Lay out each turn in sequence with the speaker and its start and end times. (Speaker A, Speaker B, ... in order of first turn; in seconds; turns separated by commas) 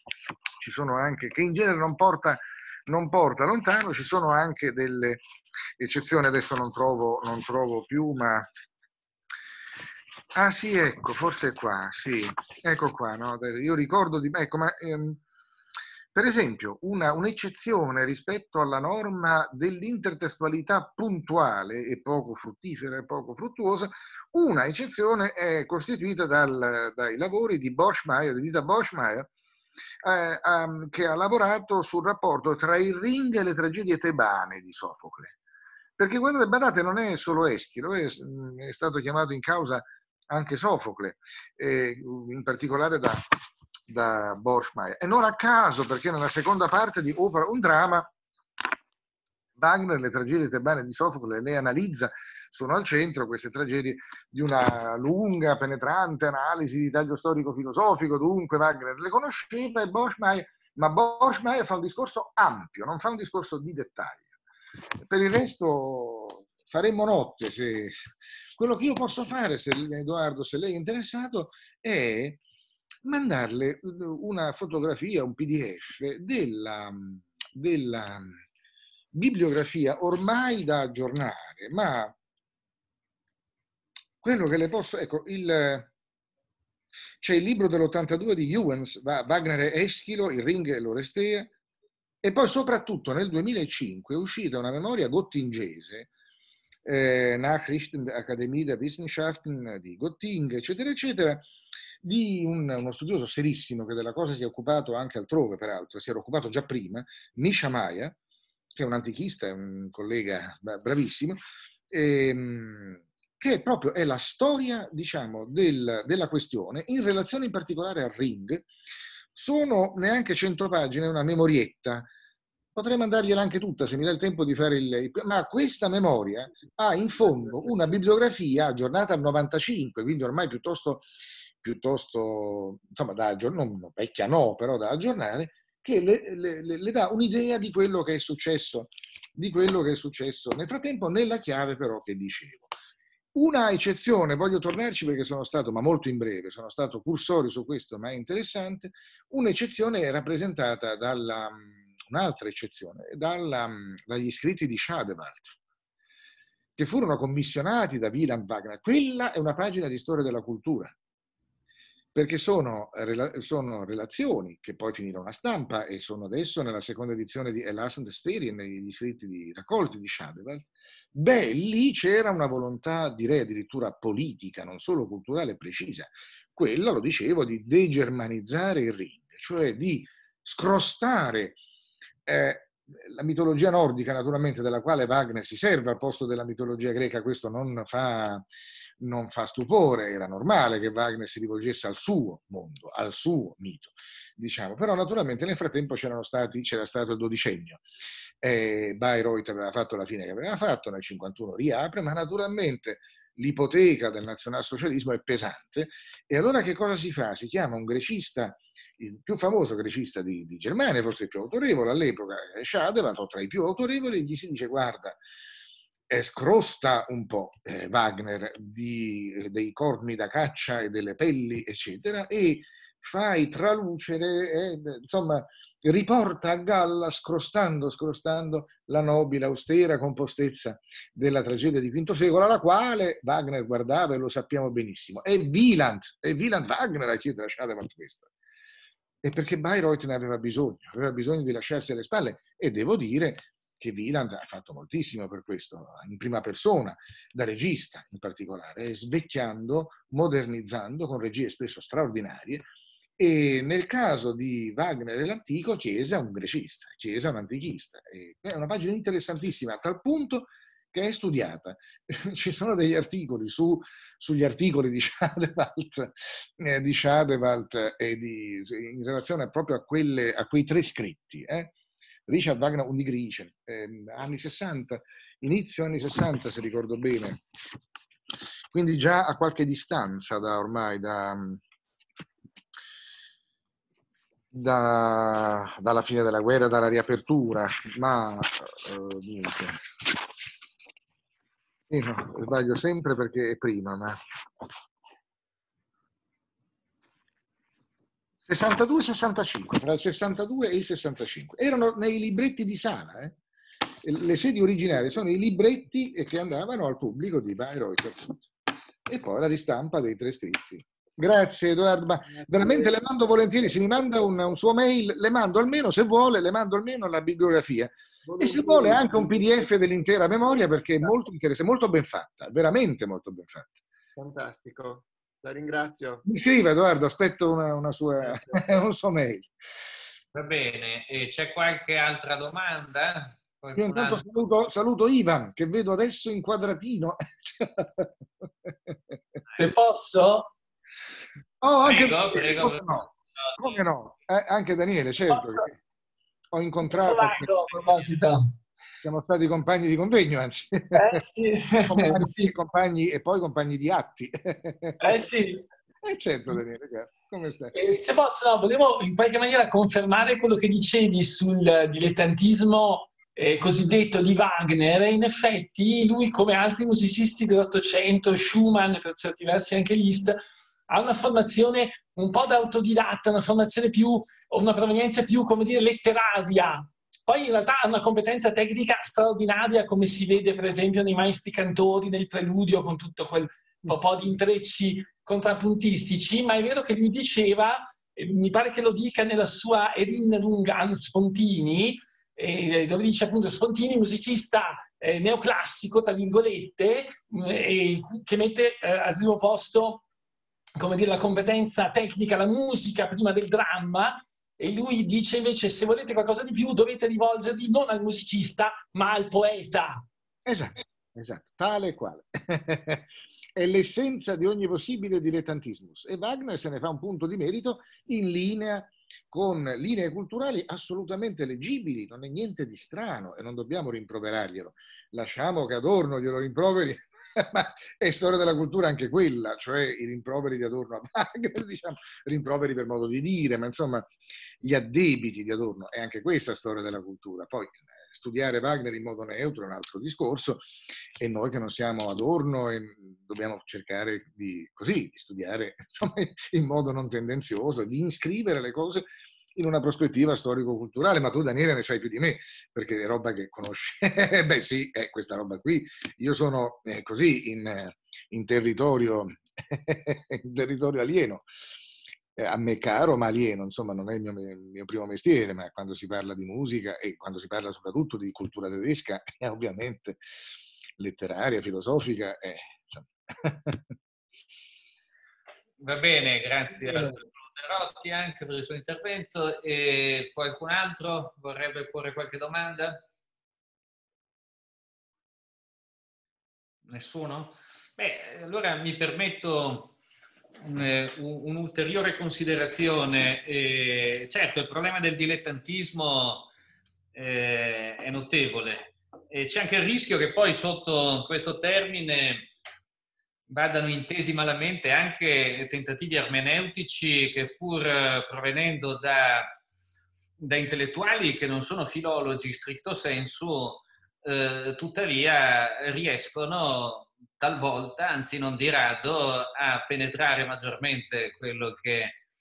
Speaker A: 0.6-5.2, Speaker A: 5.8-8.5, Speaker A: 10.3-15.2, Speaker A: 16.1-29.3, Speaker A: 30.0-35.4, Speaker A: 36.0-43.2, Speaker A: 43.9-48.1, Speaker A: 49.6-64.3, Speaker A: 65.0-68.0, Speaker A: 68.6-72.4, Speaker A: 73.0-78.4, Speaker A: 79.1-82.1, Speaker A: 84.2-85.9, Speaker A: 87.2-91.5, Speaker A: 92.2-96.1, Speaker A: 96.8-101.5, Speaker A: 102.0-108.2, Speaker A: 108.7-118.7, Speaker A: 119.3-122.1, Speaker A: 122.7-131.1, Speaker B: 127.2-128.0, Speaker A: 131.6-142.7, Speaker A: 143.3-155.6, Speaker A: 156.8-160.9, Speaker A: 162.1-181.6, Speaker A: 182.2-188.4, Speaker A: 189.0-197.8, Speaker A: 198.4-215.2, Speaker A: 216.1-238.3, Speaker A: 239.2-252.7, Speaker A: 253.2-271.7, Speaker A: 272.3-277.4, Speaker A: 278.7-281.6, Speaker A: 284.5-289.8, Speaker A: 291.9-294.7, Speaker A: 298.4-303.4, Speaker A: 304.0-308.4, Speaker A: 309.1-323.8, Speaker B: 312.3-314.3, Speaker B: 318.2-319.7, Speaker B: 324.1-326.2, Speaker A: 326.2-329.5, Speaker B: 328.2-328.6, Speaker C: 330.3-334.3, Speaker A: 333.8-339.4, Speaker D: 339.6-340.5, Speaker A: 341.6-345.7, Speaker C: 341.8-343.8, Speaker D: 345.3-345.7, Speaker A: 346.5-347.5, Speaker D: 346.9-348.5, Speaker A: 349.0-351.2, Speaker D: 350.9-352.5, Speaker A: 351.9-355.2, Speaker D: 355.0-355.6, Speaker A: 356.0-357.9, Speaker D: 357.7-400.0, Speaker D: 400.8-410.0, Speaker A: 410.4-434.1, Speaker A: 434.6-461.5, Speaker A: 462.4-470.2, Speaker A: 471.0-473.9, Speaker C: 475.8-483.0, Speaker C: 486.9-489.9, Speaker C: 490.6-496.5, Speaker C: 497.1-502.4, Speaker C: 503.5-509.5, Speaker C: 510.4-522.2